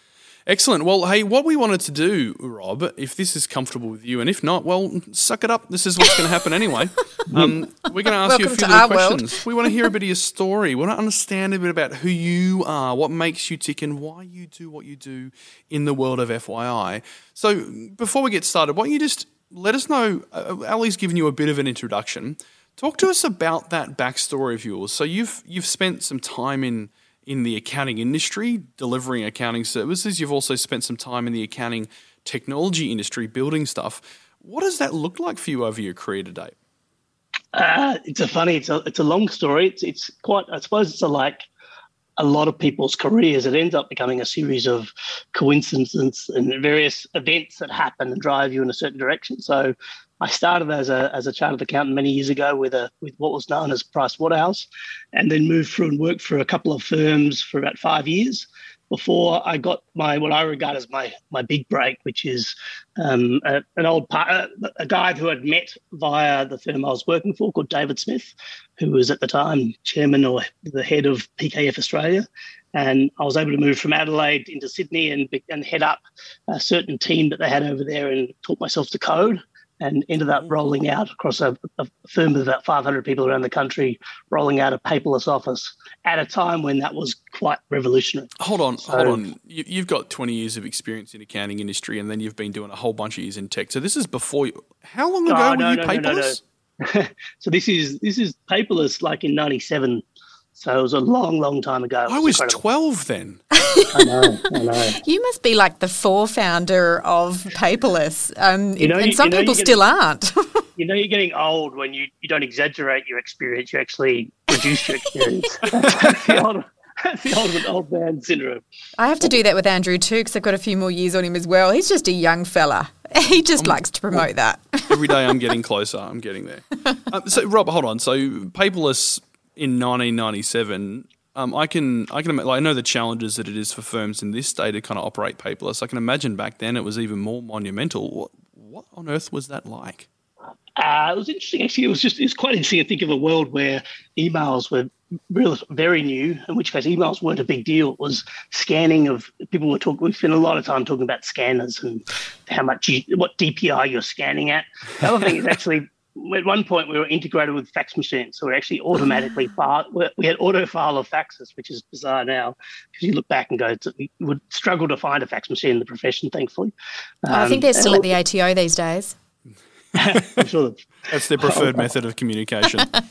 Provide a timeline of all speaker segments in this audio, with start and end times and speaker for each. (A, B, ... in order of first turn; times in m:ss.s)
0:00.5-0:36.6 A
0:08.1-0:09.4 B
0:37.5-0:41.4 C
0:42.2-1:29.2 C
1:28.4-1:36.4 A
1:35.3-1:40.0 C
1:40.6-1:42.6 C
1:42.1-1:43.4 A
1:43.6-1:44.2 B
1:43.9-1:45.0 C
1:45.0-1:50.6 B
1:48.8-1:49.8 C
1:50.8-1:58.6 C
1:54.8-1:55.7 B
1:56.1-1:56.4 A
1:59.0-2:05.3 B
2:03.6-2:04.2 A
2:04.9-2:20.1 A
2:20.8-2:46.7 C
2:47.2-2:48.1 C
2:47.3-2:49.2 B
2:50.0-2:51.9 C
2:50.1-2:50.5 A
2:51.1-2:52.9 A